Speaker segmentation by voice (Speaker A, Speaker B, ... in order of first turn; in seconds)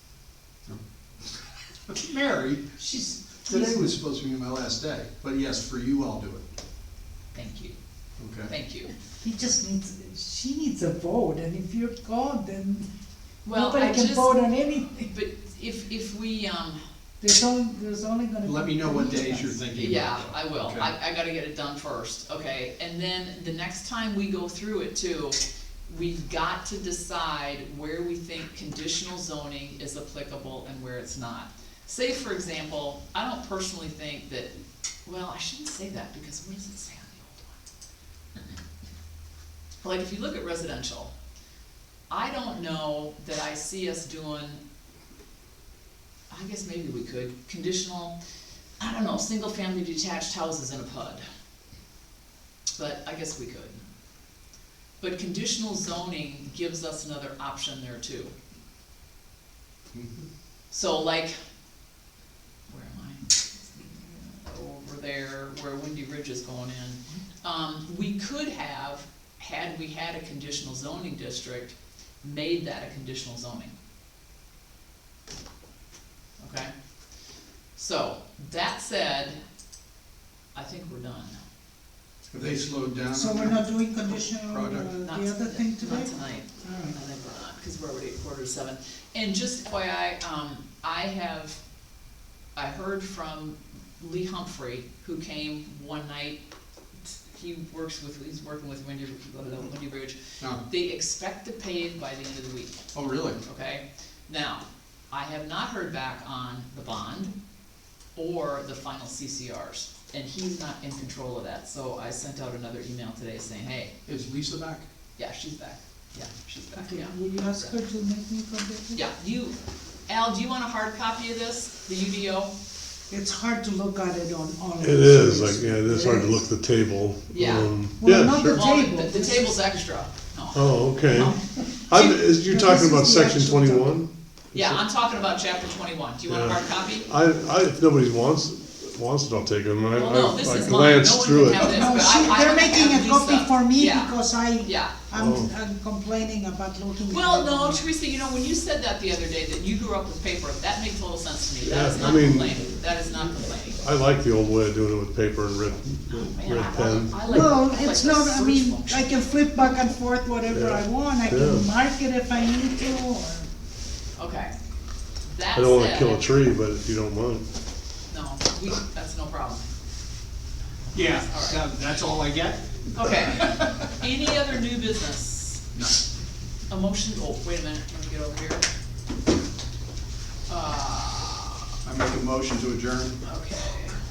Speaker A: 1.9-2.7, 3.5-6.5, 8.2-8.5, 18.4-20.9, 59.9-60.2, 82.3-85.0, 102.9-103.4, 114.1-114.9, 170.9-173.9, 175.8-176.0, 181.8-183.2
Speaker B: 2.8-4.0, 9.2-12.9, 13.5-15.1, 17.2-19.6, 83.1-87.0, 116.8-119.0, 123.1-126.4, 128.0-129.6, 132.0-134.0, 141.6-147.9, 157.3-163.5
Speaker C: 7.3-7.8, 8.5-8.9, 13.4-14.5, 15.1-16.8, 19.8-34.5, 35.0-37.5, 39.8-41.1, 42.1-44.6, 46.3-48.1, 48.8-51.2, 52.8-53.8, 55.0-58.3, 60.7-61.3, 62.7-73.7, 76.4-76.7, 77.8-79.4, 80.5-81.4, 85.0-91.6, 92.5-96.4, 97.1-102.8, 103.4-107.3, 108.2-113.9, 115.2-117.7, 118.9-119.6, 120.1-122.5, 127.3-127.7, 128.3-132.2, 134.5-137.1, 139.9-144.9, 147.1-153.8, 156.1-159.2, 164.2-164.5, 165.3-166.3, 168.1-169.6, 170.9-171.6, 172.9-175.6, 176.7-178.7, 180.5-181.7, 183.2-184.0
Speaker D: 124.8-128.6, 130.5-134.8, 136.3-141.8, 145.1-145.5, 151.6-152.8, 153.8-157.6, 160.5-161.7, 165.6-167.5